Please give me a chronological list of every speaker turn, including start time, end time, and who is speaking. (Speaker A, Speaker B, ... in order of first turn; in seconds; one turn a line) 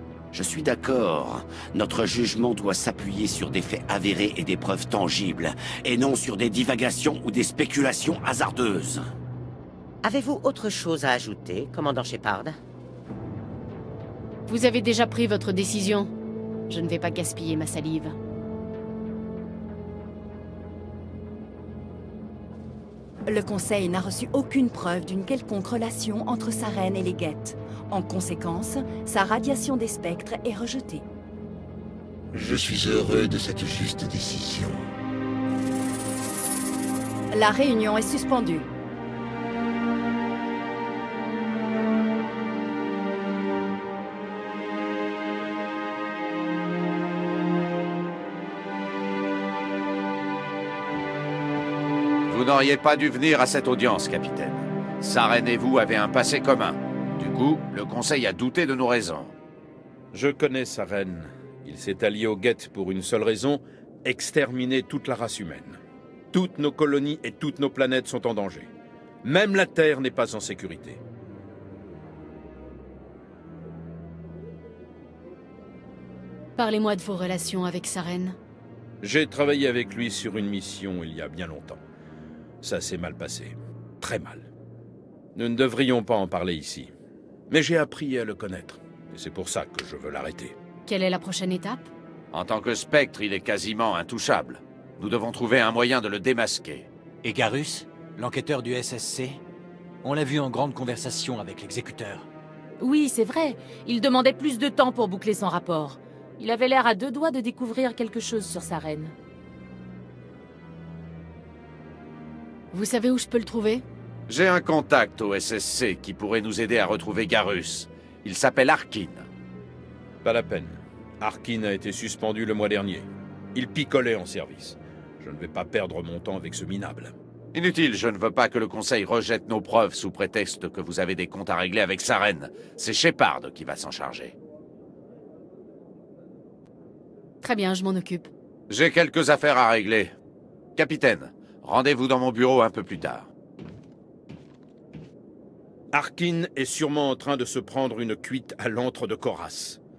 Speaker A: 0.3-9.1
Speaker B: 10.0-12.6
Speaker C: 14.5-16.1
Speaker C: 16.7-18.1
Speaker D: 23.3-31.1
Speaker E: 32.3-34.8
Speaker D: 37.3-38.7
Speaker F: 52.3-59.3
Speaker G: 60.1-65.8
Speaker G: 66.3-68.7
Speaker G: 69.2-71.0
Speaker C: 76.6-78.4
Speaker G: 79.0-81.8
Speaker G: 82.6-84.5
Speaker G: 85.3-86.9
Speaker G: 87.5-90.5
Speaker C: 90.9-91.9
Speaker F: 92.3-96.9
Speaker H: 97.2-99.4
Speaker H: 100.0-102.3
Speaker I: 102.8-109.1
Speaker C: 112.7-113.8
Speaker F: 114.3-119.3
Speaker G: 120.2-127.1
Speaker F: 127.5-134.4
Speaker C: 137.4-138.3
Speaker F: 138.7-140.1
Speaker F: 140.8-143.3
Speaker G: 145.9-149.8